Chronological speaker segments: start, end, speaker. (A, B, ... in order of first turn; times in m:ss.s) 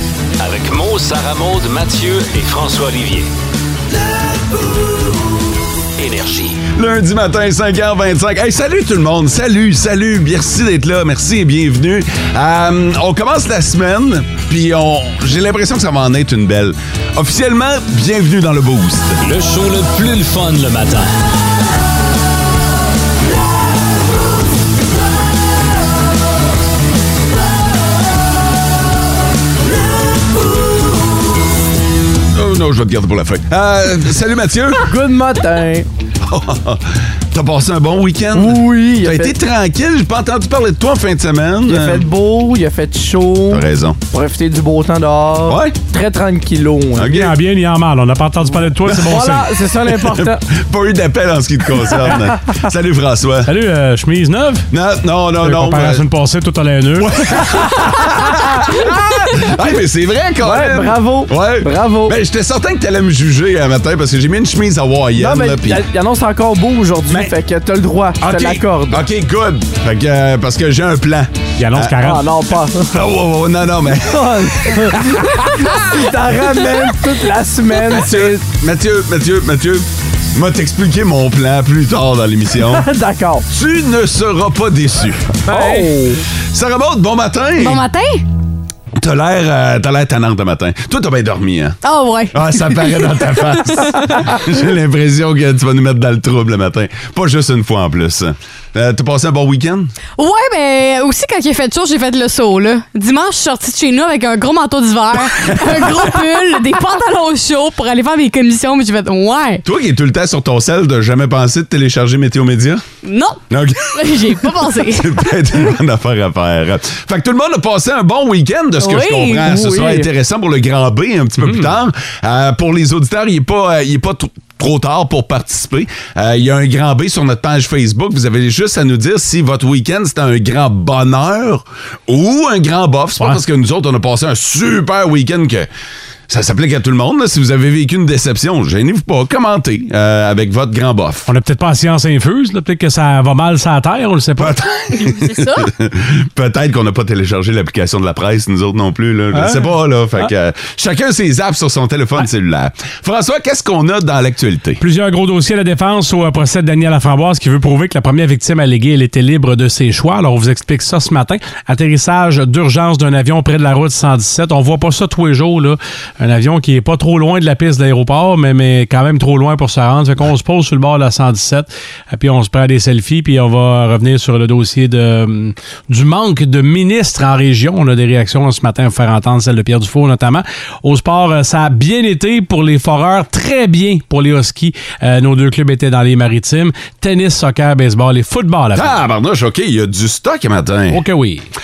0:00.4-0:03.3 A
0:06.0-0:06.6 A
0:06.7-0:19.2 B
0:19.2-0:21.1 A
0:32.3-0:34.9 B
0:34.8-0:35.9 C
0:36.2-0:42.0 B
0:38.3-0:39.3 C
0:41.6-0:47.1 C
0:43.5-0:44.0 B
0:45.5-0:45.8 B
0:47.0-0:47.4 B
0:47.1-0:49.5 D
0:48.9-0:50.4 C
0:49.9-0:53.5 B
0:53.4-0:54.7 D
0:54.7-0:56.0 B
0:55.4-0:57.1 D
0:57.0-1:05.8 B
1:00.4-1:02.2 C
1:05.2-1:09.0 C
1:08.2-1:12.0 B
1:11.6-1:12.2 D
1:12.0-1:13.0 C
1:12.9-1:15.7 B
1:14.1-1:18.4 C
1:17.9-1:22.8 B
1:22.7-1:23.4 C
1:23.5-1:25.8 B
1:25.5-1:26.2 C
1:26.5-1:27.8 B
1:27.6-1:28.2 E
1:29.0-1:31.8 B
1:31.8-1:34.0 E
1:32.3-1:39.9 B
1:40.2-1:49.6 E
1:45.6-1:46.0 B
1:49.6-1:52.8 B
1:53.0-1:53.4 E
1:53.5-2:15.7 B
1:53.9-1:55.3 E
1:58.8-1:59.4 E
1:59.4-2:00.1 C
2:16.3-2:21.3 B
2:21.3-2:24.6 D
2:24.4-2:34.8 B
2:24.9-2:25.7 E
2:29.3-2:30.3 D
2:34.8-3:09.0 D
3:08.7-3:11.0 B
3:10.9-3:11.4 D